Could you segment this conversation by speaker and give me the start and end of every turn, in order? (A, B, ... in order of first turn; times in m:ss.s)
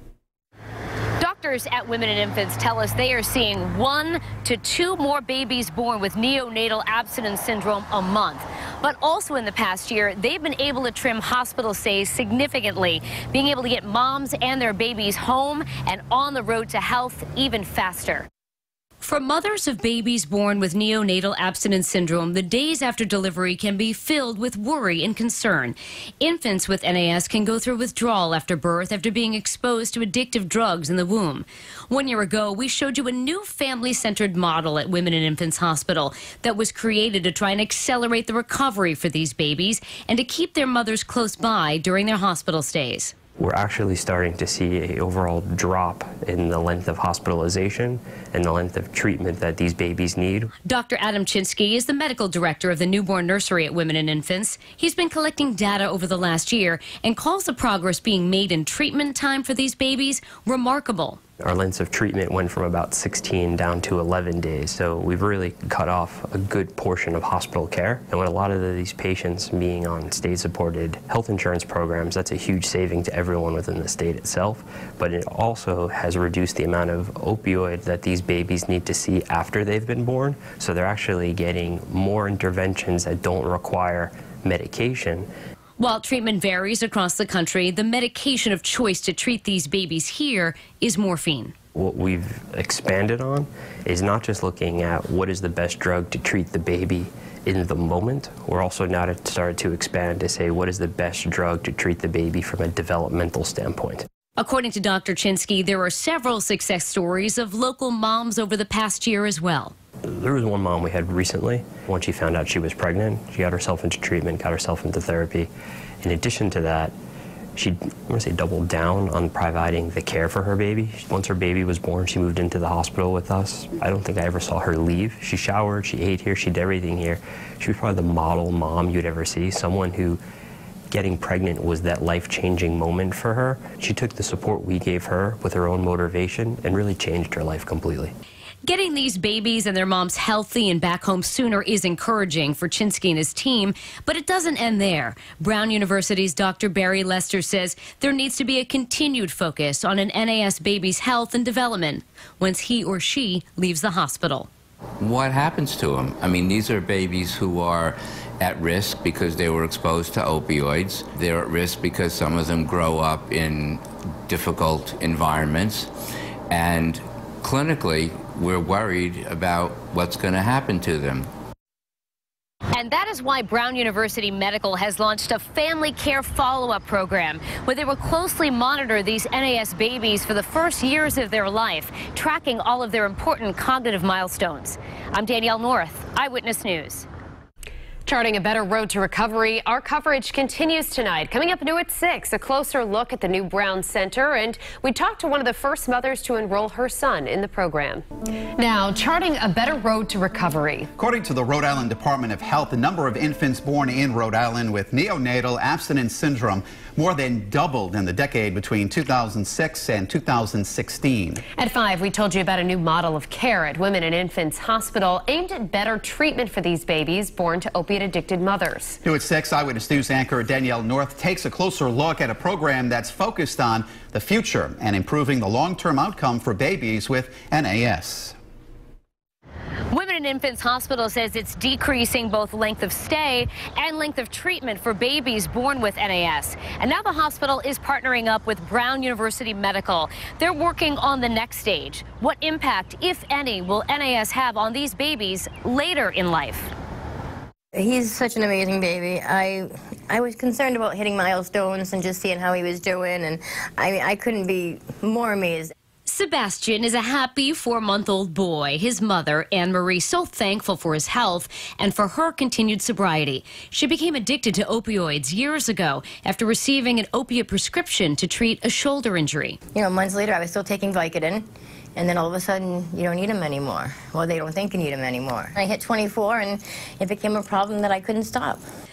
0:01.2-0:18.2 A
0:19.0-0:43.1 A
0:43.4-0:50.5 B
0:50.6-1:01.2 A
1:01.4-1:25.3 B
1:25.8-1:31.5 A
1:31.7-1:44.0 B
1:44.4-1:49.7 A
1:50.0-1:55.5 B
1:56.0-1:56.9 B
1:57.6-2:10.2 B
2:10.9-2:18.1 B
2:18.6-2:34.5 A
2:35.0-2:45.9 C
2:46.5-2:51.3 C
2:52.7-3:07.0 A
3:08.0-3:18.0 D
3:18.6-3:20.9 D
3:21.0-3:31.4 E
3:31.6-3:39.0 D
3:39.0-3:48.3 E
3:49.9-4:06.7 A
4:07.7-4:15.7 F
4:16.0-4:29.6 A
4:29.7-4:38.6 F